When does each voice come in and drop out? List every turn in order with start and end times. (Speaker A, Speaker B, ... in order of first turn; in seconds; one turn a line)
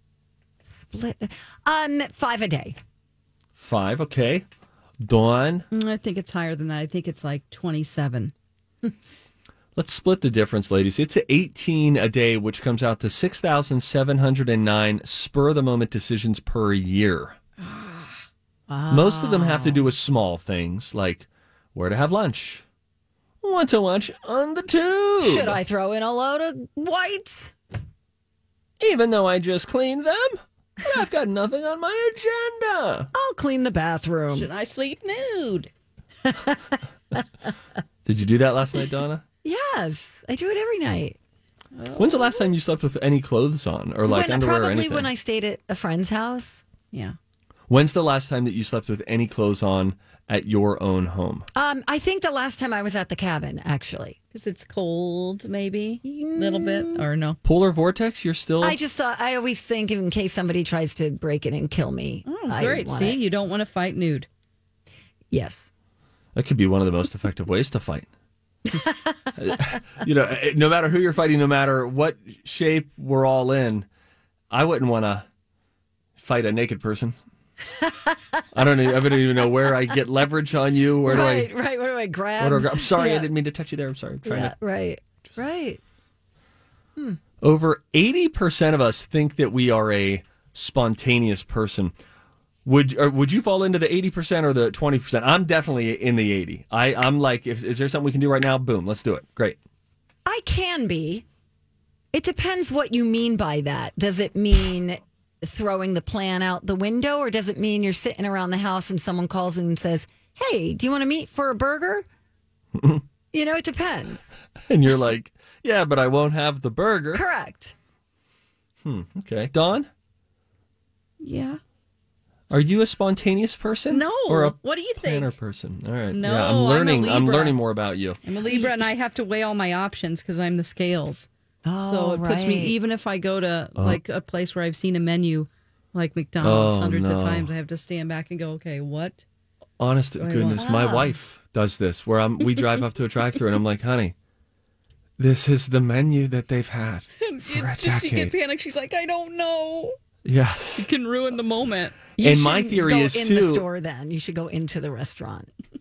Speaker A: 0.6-2.8
Speaker B: 3.6-4.5
Speaker B: 5.0-5.7
Speaker C: 5.7-8.3
Speaker B: 9.8-17.4
Speaker A: 18.7-19.9
Speaker B: 18.9-22.6
Speaker B: 23.4-25.6
Speaker A: 25.2-27.5
Speaker B: 28.8-33.1
Speaker A: 33.1-34.5
Speaker C: 34.3-35.7
Speaker A: 36.2-36.8
Speaker B: 38.0-39.2
Speaker A: 39.4-41.2
Speaker C: 41.8-42.5
Speaker B: 42.0-45.1
Speaker A: 44.0-46.6
Speaker B: 47.7-51.5
Speaker A: 51.5-54.2
Speaker C: 54.3-57.4
Speaker A: 56.0-57.1
Speaker B: 57.4-58.8
Speaker A: 58.6-63.2
Speaker C: 62.2-64.3
Speaker A: 65.3-65.7
Speaker B: 66.3-68.1
Speaker B: 69.3-73.9
Speaker B: 74.5-75.2
Speaker B: 76.2-77.2
Speaker A: 77.8-78.4
Speaker B: 78.5-81.5
Speaker A: 81.0-83.3
Speaker B: 82.4-84.5
Speaker A: 84.2-85.8
Speaker B: 87.4-91.9
Speaker B: 92.6-99.6
Speaker A: 100.2-101.2
Speaker A: 102.1-112.0
Speaker B: 112.8-113.0
Speaker A: 113.3-114.3
Speaker B: 114.7-117.2
Speaker A: 117.1-117.7
Speaker B: 118.8-119.9
Speaker C: 121.2-121.6
Speaker B: 122.5-128.2
Speaker C: 123.9-125.3
Speaker C: 126.1-127.6
Speaker C: 128.2-139.2
Speaker A: 128.4-128.8
Speaker A: 131.6-132.7
Speaker B: 136.4-137.5
Speaker B: 139.8-144.1
Speaker C: 140.2-140.6
Speaker A: 140.6-141.1
Speaker B: 145.2-148.3
Speaker C: 147.2-149.9
Speaker B: 150.2-150.9
Speaker C: 150.8-152.0
Speaker A: 152.2-155.5
Speaker B: 152.2-153.7